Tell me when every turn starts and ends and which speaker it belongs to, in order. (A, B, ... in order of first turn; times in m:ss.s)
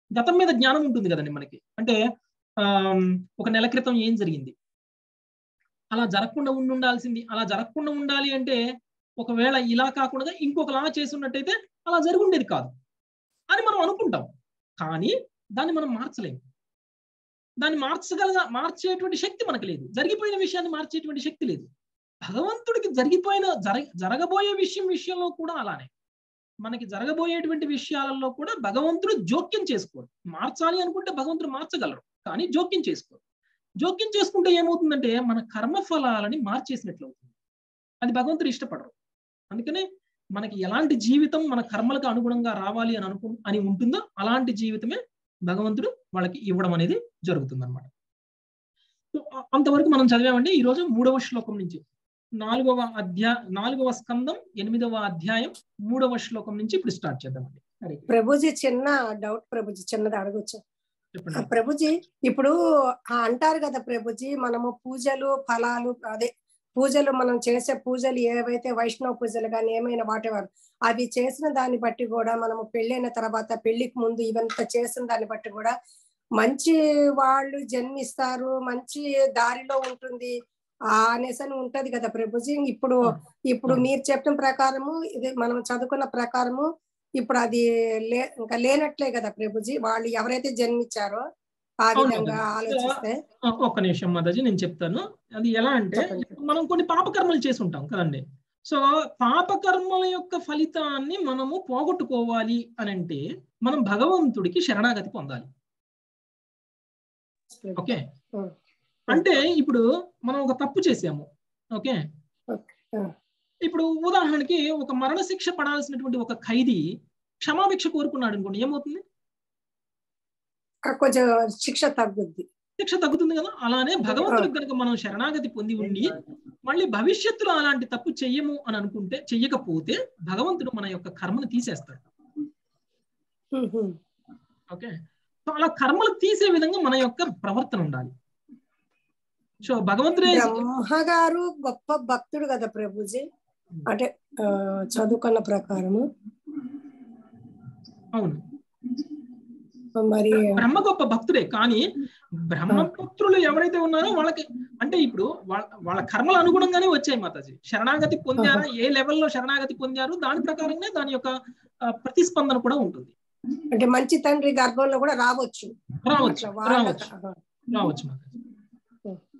0:00.2-0:02.0 A
0:02.7-0:04.5 A
0:05.9-0:08.6 A
0:09.2-0:12.7 A
0:13.5-0:14.3 A
0:14.8-0:16.4 A
0:17.6-0:21.7 A
0:22.3-0:25.9 A
0:26.6-0:33.2 A
0:33.8-0:37.3 A
0:38.0-0:38.9 A
0:39.5-0:39.8 A
0:40.4-0:47.9 A
0:49.1-0:51.8 A
0:52.4-0:58.1 A
0:58.1-1:00.6 B
1:01.2-1:01.5 A
1:01.4-1:02.5 B
1:03.2-1:15.7 B
1:16.4-1:20.3 B
1:20.9-1:26.7 B
1:23.1-1:23.9 A
1:27.2-1:31.2 B
1:31.8-1:33.2 B
1:32.0-1:32.9 A
1:33.6-1:45.5 A
1:36.0-1:36.4 B
1:47.5-1:47.8 B
1:49.1-1:52.0 A
1:52.5-1:53.1 B
1:53.7-1:56.8 A
1:57.4-1:59.0 A
2:00.9-2:02.5 B
2:02.8-2:12.0 A
2:04.1-2:04.5 B
2:13.6-2:14.0 B
2:15.5-2:18.1 A
2:19.6-2:20.6 A
2:20.2-2:23.2 B
2:23.9-2:26.0 B
2:28.1-2:28.4 A
2:30.0-2:30.6 B
2:30.3-2:31.8 A
2:32.5-2:41.3 A
2:38.4-2:38.7 B
2:41.9-2:43.1 A
2:43.7-2:47.4 B
2:46.0-2:47.1 A
2:47.7-2:48.3 A